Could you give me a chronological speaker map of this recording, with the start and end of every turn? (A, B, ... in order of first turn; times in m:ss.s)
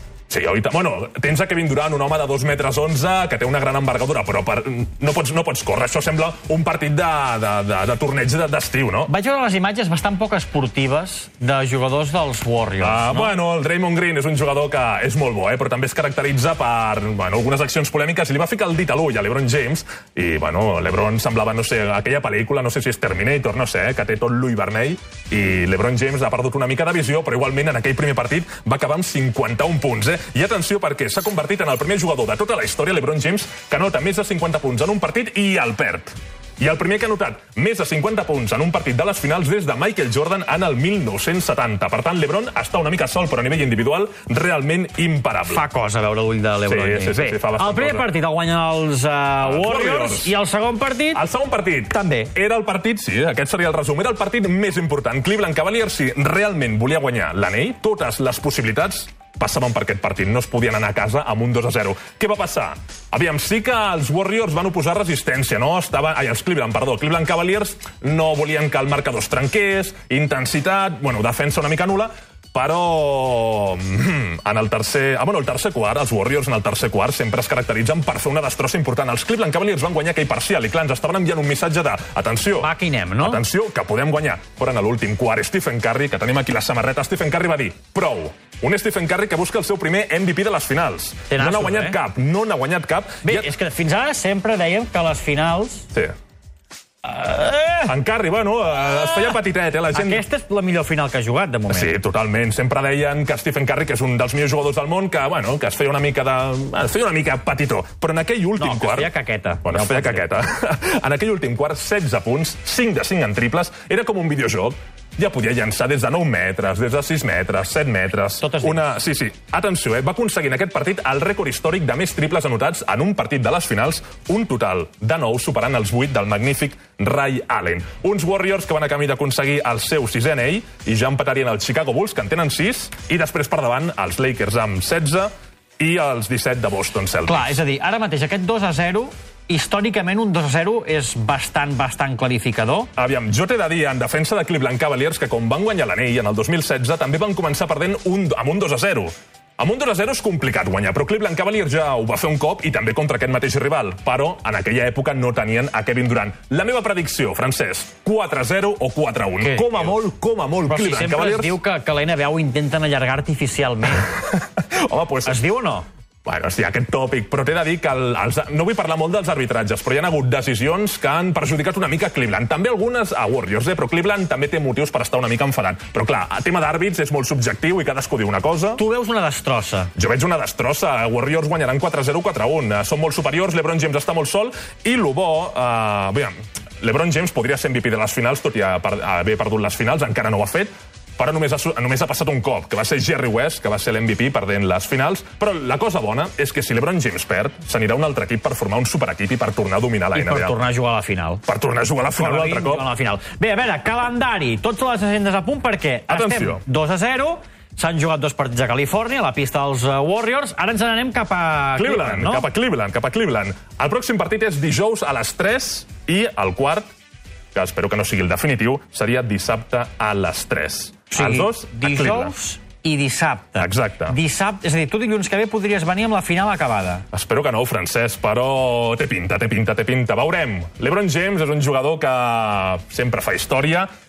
0:00.3-0:09.1 A
0:09.1-0:13.3 B
0:12.8-0:45.6 A
0:45.5-0:51.2 B
0:46.6-0:48.1 A
0:49.4-0:50.3 A
0:51.1-1:22.7 A
0:51.9-0:52.3 B
1:22.6-1:23.4 B
1:23.2-1:33.5 A
1:31.3-1:32.0 B
1:33.2-1:35.9 B
1:37.0-1:37.9 B
1:37.8-1:40.2 A
1:38.9-1:39.3 B
1:39.9-1:42.0 B
1:41.7-1:49.1 A
1:48.6-1:50.3 B
1:49.6-2:17.6 A
1:58.4-1:59.0 B
2:17.2-2:22.9 B
2:23.0-2:41.6 A
2:39.4-2:39.9 B
2:40.7-2:44.1 B
2:43.9-2:45.4 A
2:45.2-2:45.8 B
2:46.2-2:58.8 A
2:58.8-2:59.9 B
3:00.0-3:20.6 A
3:20.1-3:21.4 B
3:21.4-3:22.9 A
3:22.1-3:32.5 B
3:26.1-3:26.6 A
3:31.8-3:36.9 A
3:37.5-3:42.3 A
3:41.1-3:47.0 B
3:43.6-3:44.2 A
3:47.1-3:53.9 A